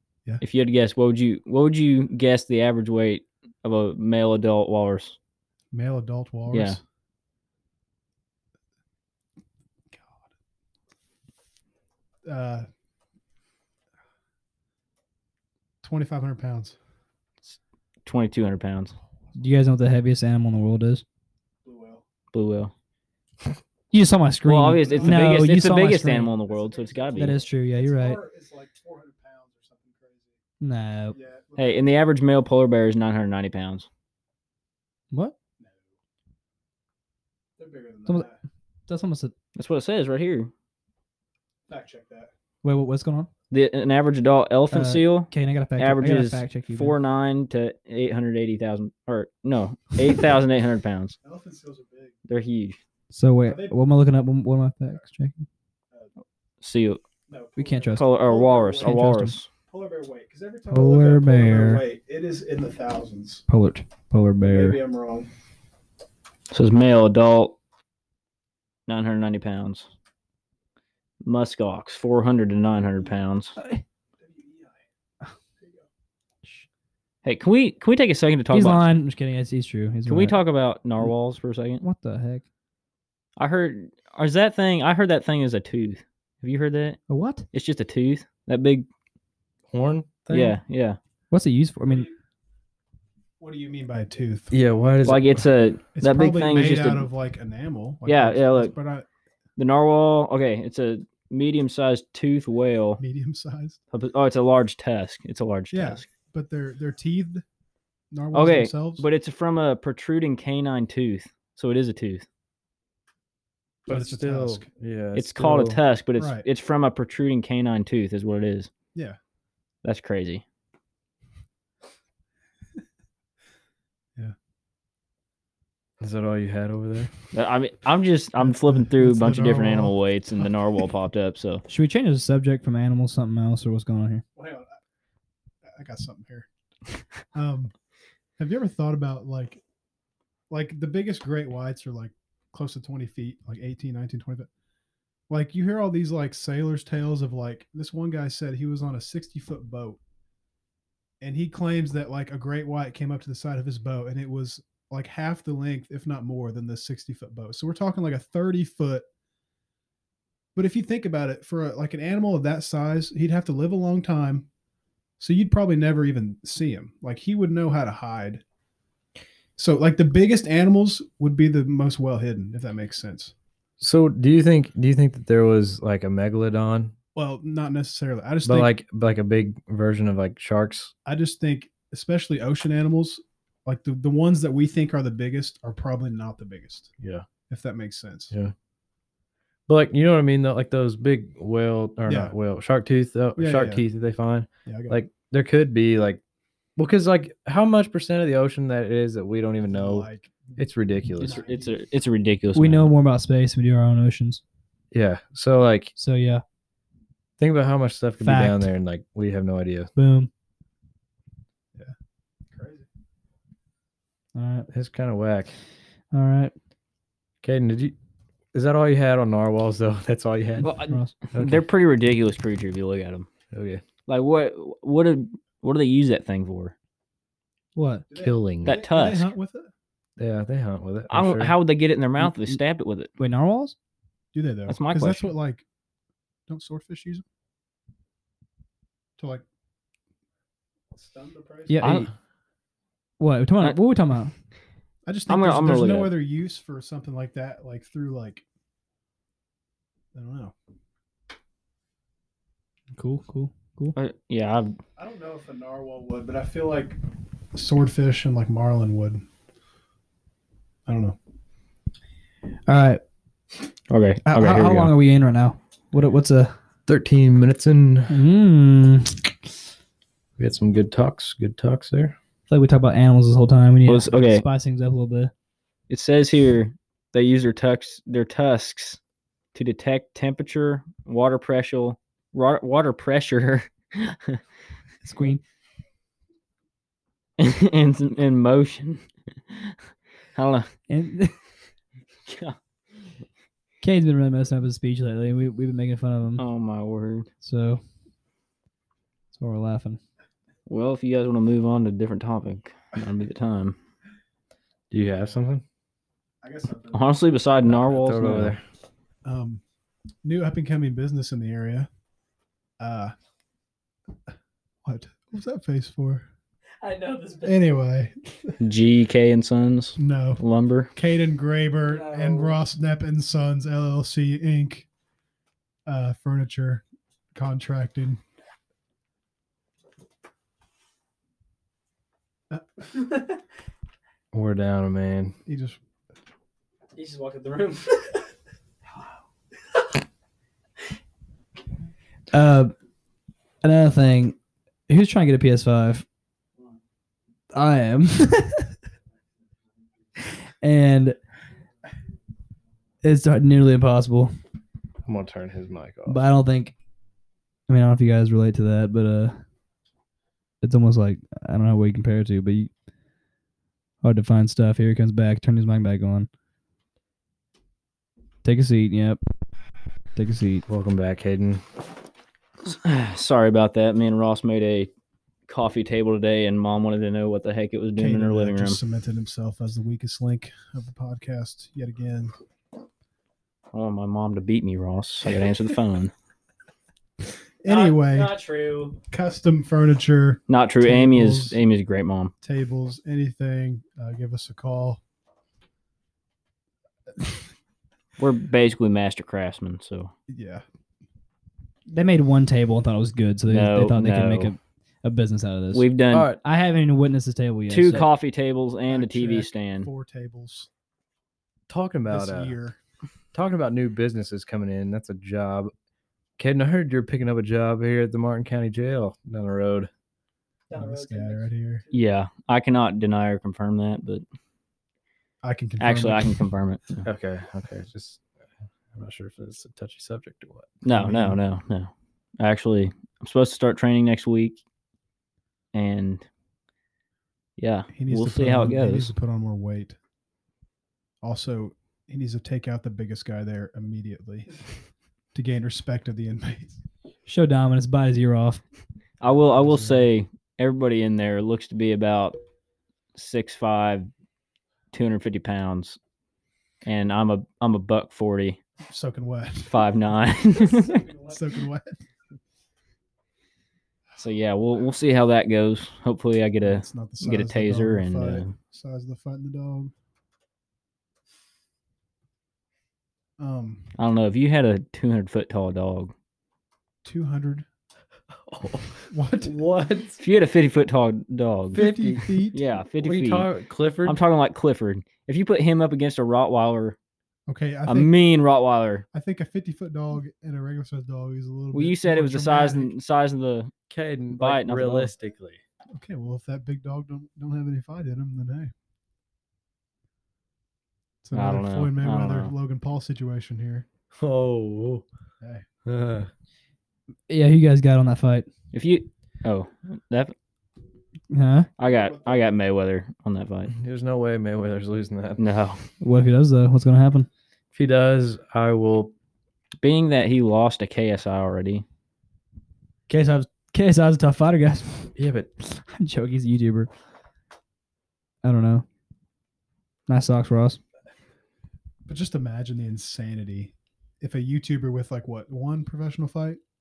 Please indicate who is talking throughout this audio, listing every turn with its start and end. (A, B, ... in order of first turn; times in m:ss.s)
0:00.4-0:05.2 A
0:05.7-0:06.8 B
0:06.5-0:06.8 A
0:09.9-0:10.3 B
0:12.2-0:12.7 B
0:15.8-0:16.8 B
0:17.5-0:18.9 A
0:19.4-0:21.0 C
0:21.6-0:22.0 B
0:22.3-0:22.7 A
0:23.9-0:26.3 C
0:24.5-0:27.4 A
0:24.7-0:25.6 B
0:26.4-0:30.4 B
0:27.2-0:28.2 C
0:30.6-0:31.2 C
0:31.1-0:31.8 B
0:31.6-0:33.9 A
0:35.6-0:35.9 B
0:37.6-0:38.4 B
0:38.9-0:39.3 C
0:39.6-0:40.5 A
0:41.7-0:42.3 B
0:42.6-0:43.3 C
0:43.5-0:51.2 A
0:44.7-0:46.9 C
0:51.2-0:52.2 B
0:52.3-0:52.8 A
0:53.1-0:55.5 C
0:53.4-0:53.9 B
0:56.6-0:57.0 A
0:57.3-0:59.1 B
0:57.6-0:58.1 C
0:58.0-0:59.5 A
0:58.8-0:59.4 C
0:59.7-1:03.4 B
1:00.7-1:01.8 C
1:03.5-1:04.8 C
1:04.4-1:05.3 B
1:06.5-1:07.6 A
1:08.9-1:09.9 A
1:11.2-1:13.6 A
1:13.6-1:13.8 C
1:14.2-1:14.8 B
1:15.6-1:15.8 B
1:17.2-1:18.8 A
1:18.5-1:20.3 C
1:20.1-1:21.8 A
1:21.8-1:22.4 C
1:23.4-1:27.0 A
1:27.1-1:27.4 C
1:27.5-1:28.8 A
1:29.7-1:30.6 D
1:30.3-1:31.0 A
1:31.3-1:32.1 C
1:31.8-1:32.1 B
1:33.4-1:34.5 B
1:34.5-1:35.5 D
1:35.0-1:37.0 A
1:36.0-1:39.1 B
1:38.0-1:38.7 A
1:39.6-1:43.0 A
1:43.0-1:43.8 B
1:43.9-1:46.0 A
1:45.7-1:47.4 B
1:48.1-1:49.1 B
1:48.3-1:52.2 A
1:53.8-1:54.7 B
1:53.9-1:55.8 D
1:55.1-1:58.7 A
1:56.2-1:56.4 B
1:59.8-2:00.4 A
2:06.0-2:07.1 D
2:07.3-2:11.6 A
2:08.4-2:10.5 B
2:11.7-2:14.2 C
2:14.4-2:14.8 B
2:15.6-2:16.5 B
2:17.3-2:17.7 B
2:18.4-2:19.6 B
2:20.5-2:24.5 B
2:25.3-2:30.0 B
2:31.2-2:39.0 B
2:40.5-2:44.5 B
2:45.2-2:48.4 B
2:49.6-2:53.3 B
2:53.8-2:56.9 D
2:57.1-2:58.7 B
2:58.4-3:00.9 D
3:01.0-3:06.9 B
3:07.5-3:08.3 B
3:09.7-3:16.2 D
3:12.0-3:12.3 B
3:13.4-3:13.8 B
3:14.6-3:15.0 B
3:16.8-3:21.4 D
3:19.6-3:20.6 B
3:21.2-3:21.8 B
3:21.2-3:22.9 A
3:22.5-3:24.4 C
3:24.9-3:25.9 D
3:26.0-3:26.4 C
3:27.4-3:29.9 D
3:28.2-3:28.7 C
3:30.0-3:30.3 C
3:32.5-3:32.9 B
3:34.3-3:34.7 C
3:34.7-3:35.6 D
3:36.1-3:36.5 C
3:37.4-3:37.9 D
3:38.5-3:40.7 D
3:40.6-3:41.1 C
3:40.6-3:43.3 A
3:41.3-3:41.6 D
3:43.5-3:43.8 D
3:44.1-3:46.7 A
3:47.7-3:48.0 C
3:48.1-3:49.7 B
3:48.2-3:48.8 D
3:48.6-3:49.3 A
3:50.2-3:51.5 D
3:51.1-3:53.1 A
3:52.2-3:52.6 C
3:53.2-3:53.7 C
3:54.3-3:55.6 B
3:54.7-3:55.3 A
3:56.5-3:57.2 B
3:59.2-3:59.4 B
4:00.9-4:01.8 B
4:01.7-4:02.1 C
4:01.8-4:02.1 A
4:03.2-4:04.3 C
4:05.0-4:08.4 B
4:05.3-4:06.1 A
4:10.1-4:10.5 B
4:12.9-4:14.0 C
4:14.0-4:14.7 A
4:15.0-4:17.0 B
4:17.5-4:19.2 B
4:20.9-4:21.2 B
4:22.7-4:23.0 C
4:23.9-4:24.9 A
4:24.2-4:26.5 C
4:26.9-4:28.2 D
4:28.1-4:29.2 C
4:30.4-4:32.2 D
4:32.5-4:35.3 C
4:33.9-4:34.4 A
4:35.9-4:39.0 A
4:39.5-4:44.4 A
4:45.0-4:45.4 C
4:47.4-4:49.7 A
4:50.3-4:50.7 A
4:50.9-4:51.4 C
4:52.3-4:52.6 A
4:53.8-4:56.4 C
4:56.4-4:57.3 A
4:57.4-4:57.8 C
4:59.3-5:00.0 C
5:00.7-5:03.8 A
5:04.9-5:05.6 D
5:06.4-5:07.2 B
5:06.9-5:08.6 A
5:07.7-5:08.6 D
5:09.2-5:09.6 B
5:10.2-5:11.9 B
5:12.8-5:13.1 B
5:14.8-5:16.3 B
5:17.0-5:17.3 C
5:17.4-5:18.5 B
5:18.6-5:20.9 A
5:20.0-5:20.4 B
5:20.9-5:24.9 B
5:25.8-5:28.2 B
5:32.5-5:32.8 B
5:34.3-5:35.4 D
5:35.4-5:35.8 B
5:37.0-5:37.9 A
5:42.3-5:42.7 C
5:43.6-5:44.4 C
5:44.9-5:46.0 C
5:47.5-5:48.7 C
5:50.5-5:51.2 C
5:53.0-5:54.3 C
5:55.0-5:56.3 D
5:56.0-5:56.7 C
5:57.7-5:59.4 C
6:00.6-6:02.7 C
6:04.0-6:06.3 C
6:08.4-6:09.2 C
6:10.1-6:10.6 C
6:10.7-6:11.6 D
6:12.6-6:14.9 A
6:15.5-6:18.8 A
6:18.0-6:22.3 B
6:23.7-6:26.1 A
6:27.6-6:28.3 B
6:27.7-6:29.0 A
6:29.1-6:31.6 B
6:30.5-6:32.3 A
6:32.4-6:35.0 B
6:38.2-6:40.1 A
6:40.3-6:40.6 B
6:41.9-6:45.8 C
6:43.5-6:44.5 A
6:45.7-6:46.3 A
6:46.1-6:46.4 D
6:46.4-6:48.1 C
6:47.7-6:49.9 A
6:48.9-6:50.7 B
6:51.7-6:52.5 D
6:52.1-6:52.8 B
6:53.3-6:55.7 D
6:56.4-6:59.9 D
7:00.7-7:01.8 B
7:01.9-7:04.2 A
7:05.4-7:06.4 B
7:05.8-7:07.0 A
7:07.0-7:08.2 D
7:08.9-7:10.7 D
7:10.8-7:14.6 A
7:10.8-7:11.4 B
7:15.7-7:16.2 A
7:17.6-7:19.1 A
7:17.9-7:20.0 B
7:21.2-7:24.6 B
7:25.3-7:26.8 B
7:27.2-7:28.6 C
7:29.2-7:32.4 A
7:29.2-7:30.1 B
7:33.1-7:34.1 A
7:34.9-7:36.0 A
7:36.8-7:38.6 A
7:38.8-7:39.8 B
7:39.7-7:41.1 A
7:41.2-7:42.0 B
7:44.2-7:48.5 A
7:46.6-7:49.9 B
7:53.4-7:53.9 B
7:54.0-7:56.1 A
7:57.0-7:57.7 B
7:58.5-8:00.2 D
7:59.1-7:59.5 B
8:00.2-8:01.8 A
8:01.7-8:02.7 B
8:01.7-8:02.4 D
8:02.5-8:03.5 A
8:03.0-8:04.2 D
8:04.0-8:07.0 A
8:07.5-8:08.1 B
8:07.9-8:09.0 A
8:09.1-8:12.9 B
8:11.7-8:13.7 A
8:13.9-8:15.6 D
8:14.3-8:15.1 A
8:15.9-8:18.7 B
8:21.2-8:23.9 B
8:21.3-8:22.5 A
8:24.2-8:25.0 D
8:25.4-8:25.6 B
8:25.8-8:26.3 D
8:27.3-8:28.5 C
8:28.7-8:30.3 A
8:31.3-8:31.7 C
8:31.8-8:33.7 A
8:31.9-8:32.5 B
8:33.7-8:35.4 D
8:35.4-8:35.8 A
8:36.0-8:37.3 C
8:37.7-8:39.1 D
8:39.8-8:41.8 A
8:43.1-8:46.9 C
8:45.2-8:45.5 D
8:48.4-8:48.9 C
8:50.1-8:50.8 C
8:52.0-8:56.6 B